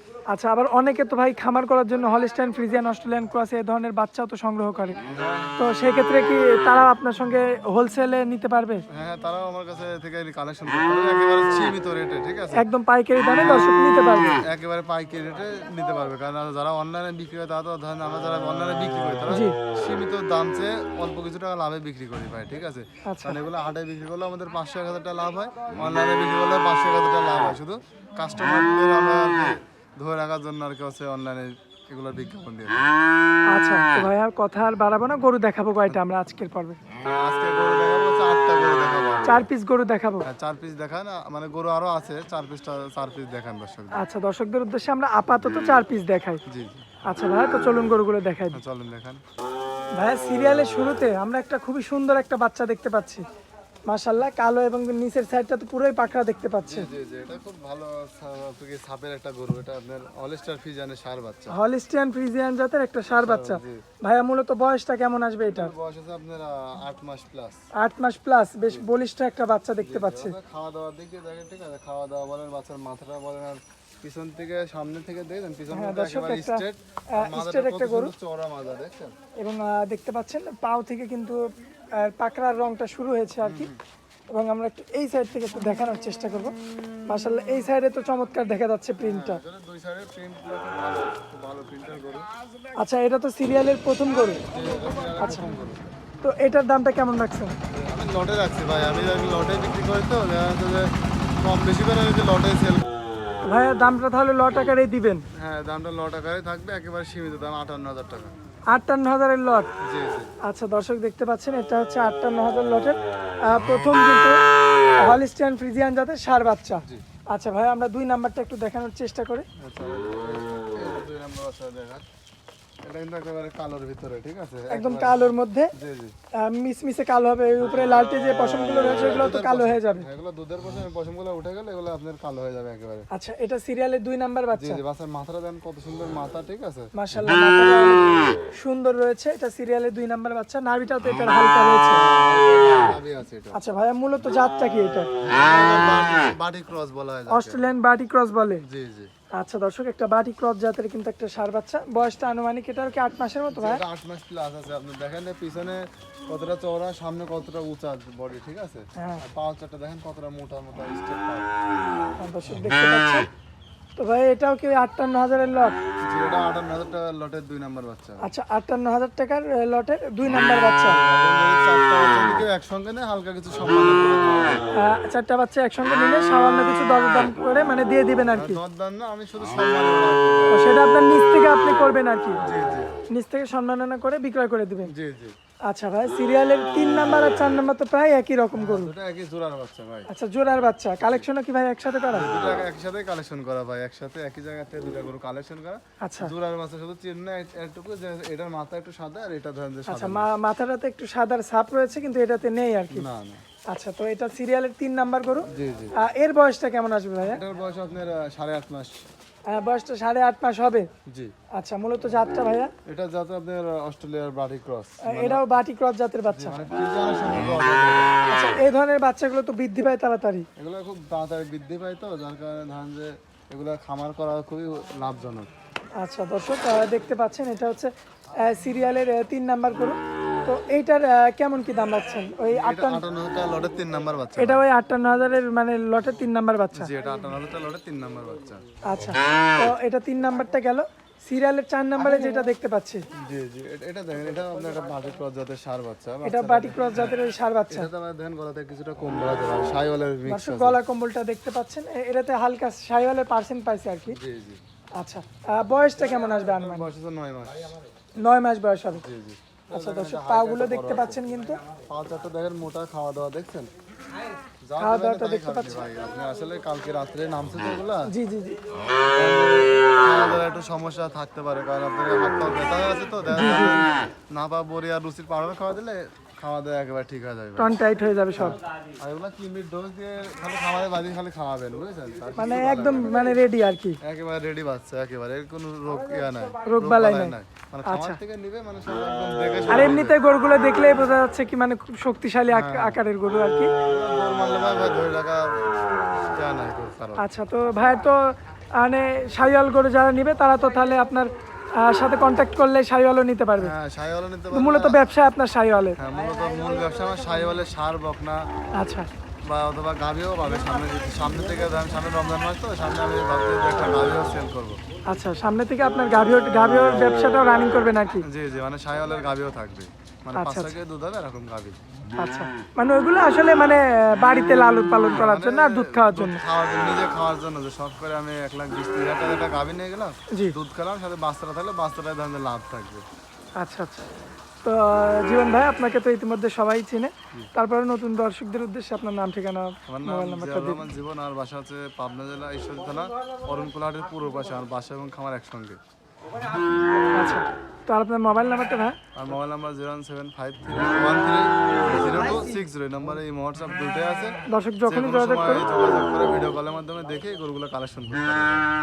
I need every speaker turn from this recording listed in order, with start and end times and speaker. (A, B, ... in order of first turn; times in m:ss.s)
0:00.3-0:05.0 A
0:05.0-0:05.6 B
0:05.6-0:08.8 A
0:08.9-0:12.6 B
0:12.6-0:14.4 A
0:13.4-0:13.7 B
0:14.4-0:32.9 B
0:19.3-0:19.6 A
0:23.0-0:23.4 A
0:33.5-0:36.8 A
0:37.0-0:39.4 B
0:39.2-0:40.3 A
0:40.2-0:44.0 B
0:43.9-0:46.4 A
0:46.5-0:46.9 B
0:47.1-0:48.6 A
0:48.5-0:49.2 B
0:50.0-0:53.2 A
0:53.9-0:56.9 A
0:56.6-1:01.6 B
1:01.5-1:05.7 A
1:03.1-1:03.8 B
1:05.5-1:07.6 B
1:07.8-1:10.4 A
1:09.8-1:19.1 B
1:15.7-1:18.1 A
1:19.4-1:21.4 A
1:22.0-1:23.7 A
1:23.4-1:23.8 B
1:24.3-1:26.6 A
1:27.1-1:29.4 A
1:29.0-1:32.3 B
1:32.8-1:34.4 A
1:34.5-1:35.9 B
1:35.2-1:35.5 A
1:36.2-1:37.6 A
1:37.7-1:42.9 B
1:43.4-1:45.2 A
1:45.4-1:48.3 B
1:48.7-1:49.7 A
1:49.8-1:50.3 B
1:50.4-1:54.4 A
1:55.0-1:59.5 A
1:59.6-2:02.0 B
2:02.8-2:06.2 B
2:04.7-2:05.7 A
2:06.4-2:10.1 A
2:08.9-2:13.1 B
2:13.1-2:14.8 A
2:14.6-2:16.9 B
2:17.0-2:22.0 A
2:21.9-2:23.6 B
2:23.5-2:25.1 A
2:25.2-2:27.6 B
2:27.3-2:28.6 A
2:28.6-2:29.1 B
2:29.4-2:33.8 A
2:33.5-2:41.5 B
2:39.0-2:39.2 A
2:42.2-2:43.3 A
2:44.0-2:45.8 A
2:46.0-2:48.2 B
2:48.2-2:51.0 A
2:50.8-2:54.6 B
2:54.7-2:58.6 A
2:58.3-3:00.6 B
3:00.5-3:02.4 A
3:02.4-3:02.9 B
3:03.1-3:04.9 A
3:04.9-3:05.4 B
3:05.7-3:08.9 A
3:08.6-3:10.1 B
3:10.1-3:12.3 A
3:11.0-3:11.3 B
3:12.1-3:20.3 B
3:16.0-3:16.3 A
3:19.9-3:23.1 A
3:22.9-3:23.4 B
3:23.7-3:27.4 A
3:25.5-3:25.9 B
3:27.2-3:29.0 B
3:29.5-3:30.9 A
3:31.1-3:31.3 B
3:31.5-3:32.7 A
3:32.8-3:35.5 B
3:35.0-3:36.6 A
3:36.3-3:38.1 B
3:38.3-3:40.5 A
3:40.6-3:45.5 B
3:46.0-3:53.0 A
3:52.5-3:54.6 B
3:54.4-3:56.9 A
3:56.7-3:58.6 B
3:58.8-4:03.0 A
4:03.2-4:07.2 B
4:06.2-4:07.9 A
4:07.7-4:10.8 B
4:10.3-4:14.2 A
4:14.1-4:14.6 B
4:15.0-4:16.9 A
4:16.4-4:17.8 B
4:18.2-4:19.0 A
4:19.0-4:21.2 B
4:19.7-4:21.6 A
4:21.9-4:23.7 B
4:24.6-4:28.1 B
4:24.8-4:25.8 A
4:28.1-4:28.6 A
4:29.1-4:37.7 B
4:33.3-4:33.8 A
4:37.6-4:38.6 A
4:38.4-4:43.4 B
4:42.4-4:44.0 A
4:44.0-4:50.2 B
4:46.6-4:48.2 A
4:49.7-4:53.7 A
4:52.5-4:53.0 B
4:53.9-4:57.2 B
4:57.2-5:01.3 A
5:01.8-5:03.7 A
5:03.6-5:05.0 B
5:04.5-5:06.0 A
5:06.0-5:08.4 B
5:08.8-5:09.1 A
5:09.4-5:14.8 B
5:15.1-5:18.2 A
5:18.2-5:21.8 B
5:20.4-5:20.7 A
5:22.2-5:26.4 A
5:25.1-5:33.1 B
5:33.6-5:34.1 A
5:34.6-5:40.8 A
5:39.9-5:45.8 B
5:47.1-5:49.0 A
5:49.2-5:54.4 B
5:54.5-5:55.7 A
5:54.9-5:58.6 B